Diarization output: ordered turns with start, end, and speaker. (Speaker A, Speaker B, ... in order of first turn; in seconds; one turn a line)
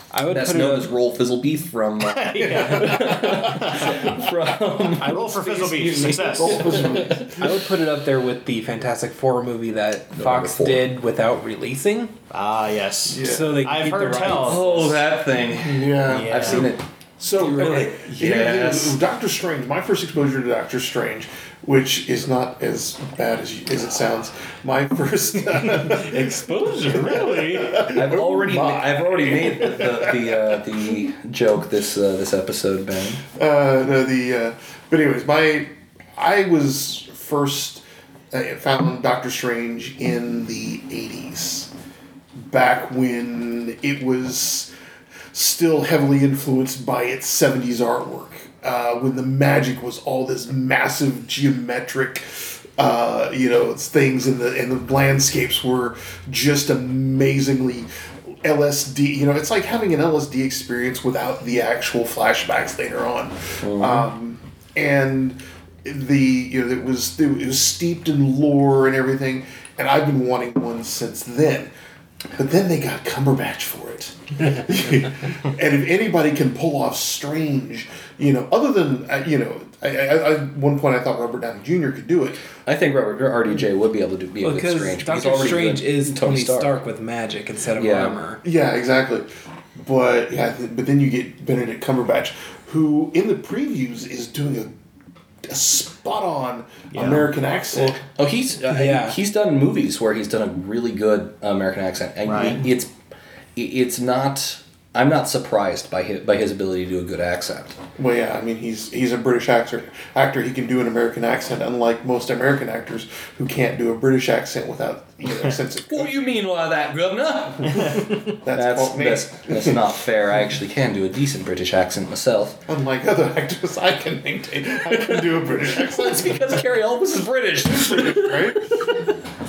Speaker A: 0.1-0.9
Speaker B: 0.3-7.4
Speaker C: 2.0-4.2
Speaker D: 2.4-3.9
Speaker C: 5.0-7.0
Speaker D: 6.2-7.5
Speaker A: 7.4-12.2
Speaker B: 10.1-10.9
Speaker C: 12.3-15.1
Speaker D: 13.1-13.6
Speaker A: 13.2-14.7
Speaker B: 14.4-19.0
Speaker D: 15.6-30.6
Speaker C: 16.1-16.7
Speaker A: 26.1-27.5
Speaker C: 26.9-27.8
Speaker B: 27.9-33.2
Speaker D: 33.4-41.7
Speaker D: 42.4-44.7
Speaker D: 45.3-57.9
Speaker D: 58.4-71.7
Speaker B: 63.6-64.1
Speaker D: 72.4-82.4
Speaker B: 82.7-86.8
Speaker A: 84.4-88.4
Speaker B: 87.8-88.2
Speaker D: 88.4-89.3
Speaker D: 89.8-94.7
Speaker D: 95.5-98.0
Speaker C: 96.9-97.3
Speaker B: 98.1-102.9
Speaker A: 98.7-99.2
Speaker C: 102.2-102.6
Speaker B: 103.5-107.8
Speaker D: 108.0-116.1
Speaker B: 115.9-122.6
Speaker D: 117.8-119.8
Speaker D: 122.7-126.6
Speaker B: 124.8-129.1
Speaker D: 127.7-128.9